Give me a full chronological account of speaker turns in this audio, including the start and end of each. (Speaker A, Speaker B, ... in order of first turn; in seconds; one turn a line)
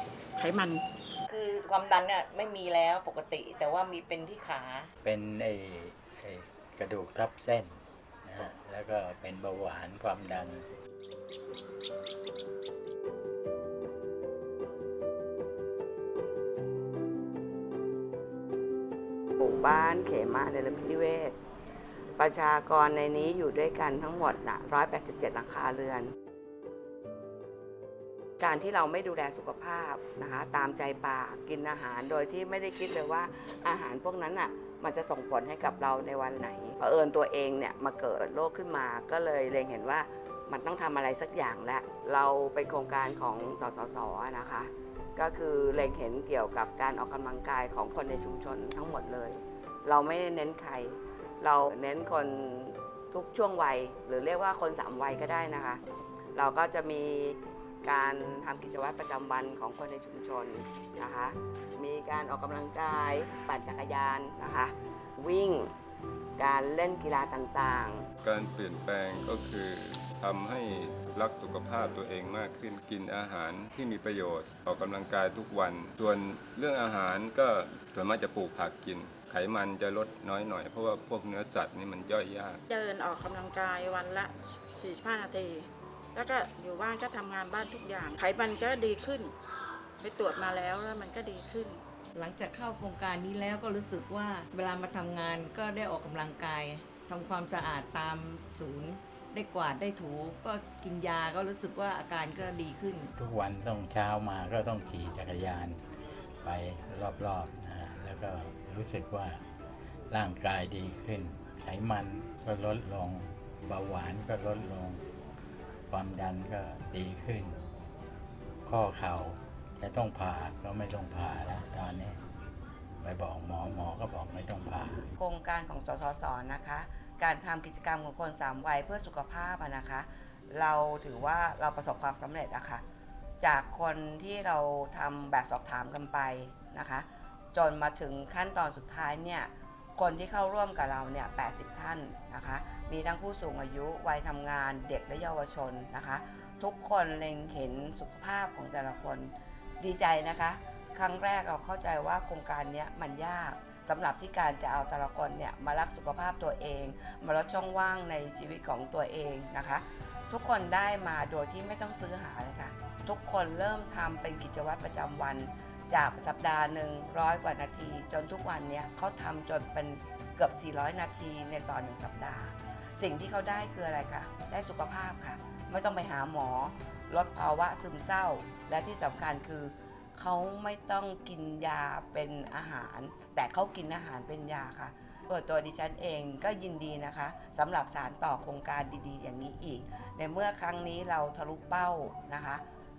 Speaker A: 0.3-0.9
Speaker B: 1.3-4.9
Speaker C: 5.0-10.7
Speaker D: 19.4-21.4
Speaker D: 22.2-26.1
Speaker D: 28.4-55.8
Speaker D: 56.4-65.7
Speaker D: 66.4-68.1
Speaker E: 68.2-82.6
Speaker A: 82.7-89.3
Speaker A: 90.0-91.8
Speaker B: 92.2-103.1
Speaker C: 103.2-105.8
Speaker C: 106.4-109.4
Speaker C: 110.1-115.0
Speaker C: 115.9-117.6
Speaker C: 118.7-122.2
Speaker C: 123.0-125.1
Speaker D: 125.2-132.8
Speaker D: 133.4-192.6